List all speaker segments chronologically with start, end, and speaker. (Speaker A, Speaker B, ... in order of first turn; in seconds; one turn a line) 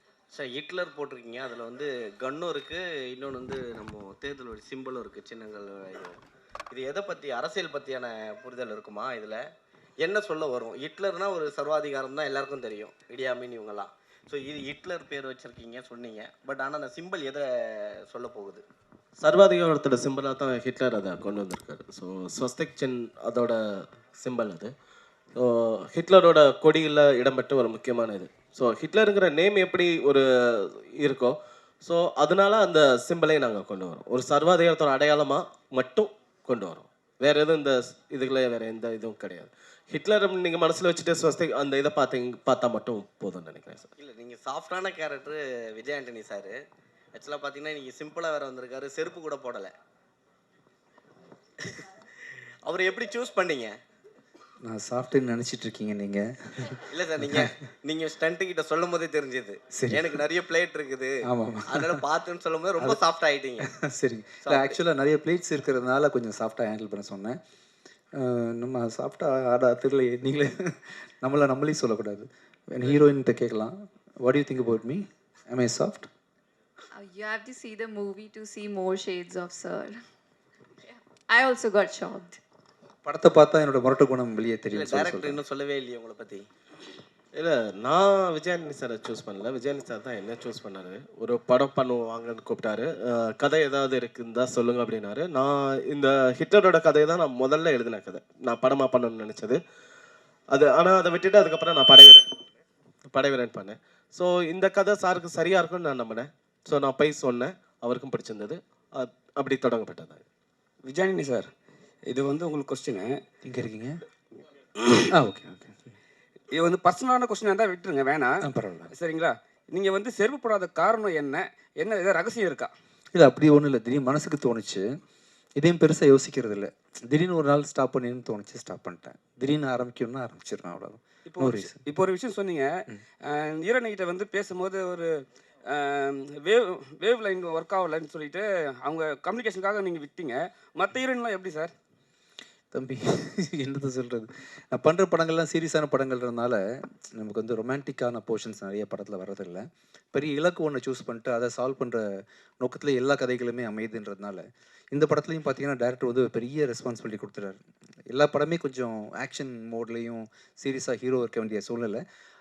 Speaker A: 0.3-18.6
Speaker B: 19.2-23.6
Speaker B: 24.1-24.7
Speaker B: 25.4-43.9
Speaker A: 44.0-46.5
Speaker A: 47.1-49.7
Speaker A: 52.6-53.8
Speaker C: 54.6-57.5
Speaker A: 56.9-63.7
Speaker C: 59.7-60.2
Speaker C: 61.3-62.0
Speaker C: 63.6-67.4
Speaker A: 64.4-64.8
Speaker C: 68.2-76.1
Speaker D: 76.9-80.0
Speaker D: 80.8-82.4
Speaker C: 83.0-85.4
Speaker A: 84.7-86.5
Speaker B: 87.4-99.6
Speaker B: 100.5-102.2
Speaker B: 103.1-110.2
Speaker E: 110.8-111.5
Speaker E: 112.0-113.2
Speaker C: 113.4-114.0
Speaker C: 115.1-115.7
Speaker E: 116.5-122.7
Speaker C: 118.4-118.9
Speaker C: 123.1-124.9
Speaker C: 125.6-131.8
Speaker E: 131.2-132.7
Speaker E: 133.2-141.7
Speaker C: 142.7-146.6
Speaker C: 147.2-157.6
Speaker C: 158.1-162.0